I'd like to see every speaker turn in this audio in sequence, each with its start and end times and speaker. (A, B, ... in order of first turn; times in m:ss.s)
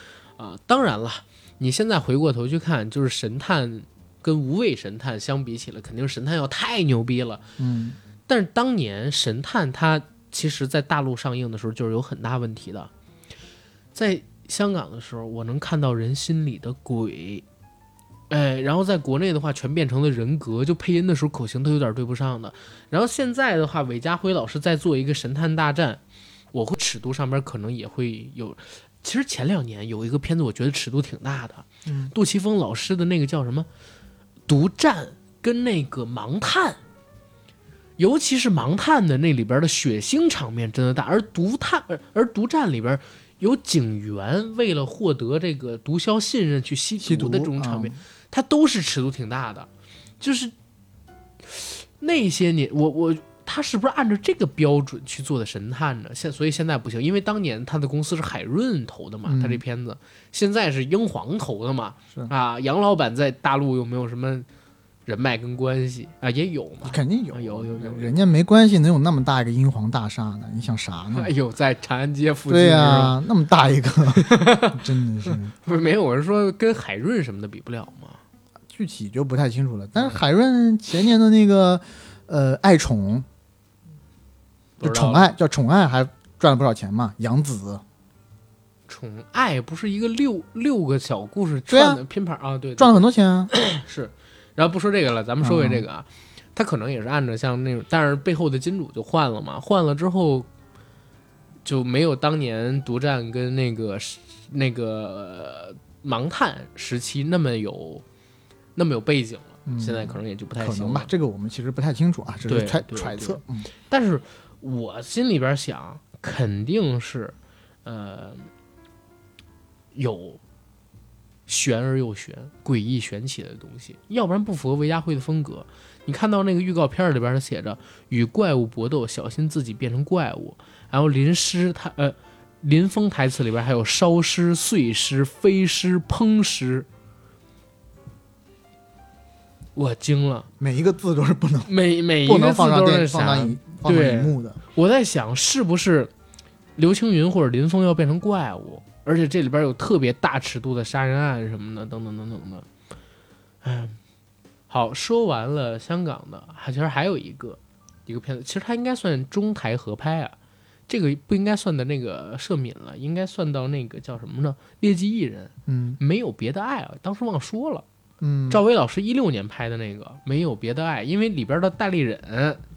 0:00.4-0:07.4 A
0:07.6-0:08.0 B
0:08.3-0:12.9 A
0:13.9-0:17.4 A
0:18.3-0:26.0 A
0:26.5-0:33.7 A
0:31.9-0:32.1 B
0:34.5-0:36.8 A
0:38.0-0:49.7 A
0:47.0-0:48.0 B
0:50.2-0:50.5 A
0:51.4-1:04.5 A
0:59.3-0:59.6 B
1:05.1-1:08.2 A
1:06.8-1:11.3 B
1:11.1-1:13.2 A
1:12.5-1:15.5 B
1:14.1-1:18.2 A
1:18.7-1:23.3 B
1:24.8-1:25.3 A
1:24.8-1:27.8 B
1:28.9-1:40.5 A
1:31.7-1:32.0 B
1:32.8-1:33.5 B
1:35.4-1:35.9 B
1:41.6-1:48.0 A
1:48.8-1:51.1 A
1:49.7-1:53.7 B
1:52.5-1:58.5 A
1:59.9-2:00.4 A
2:01.5-2:16.9 A
2:19.8-2:20.5 A
2:20.6-2:21.7 B
2:21.7-2:26.1 A
2:22.2-2:24.6 B
2:26.8-2:32.7 A
2:33.6-2:34.0 A
2:34.7-2:40.4 A
2:40.9-2:47.8 A
2:45.7-2:46.0 B
2:48.2-2:48.6 B
2:48.5-2:52.6 A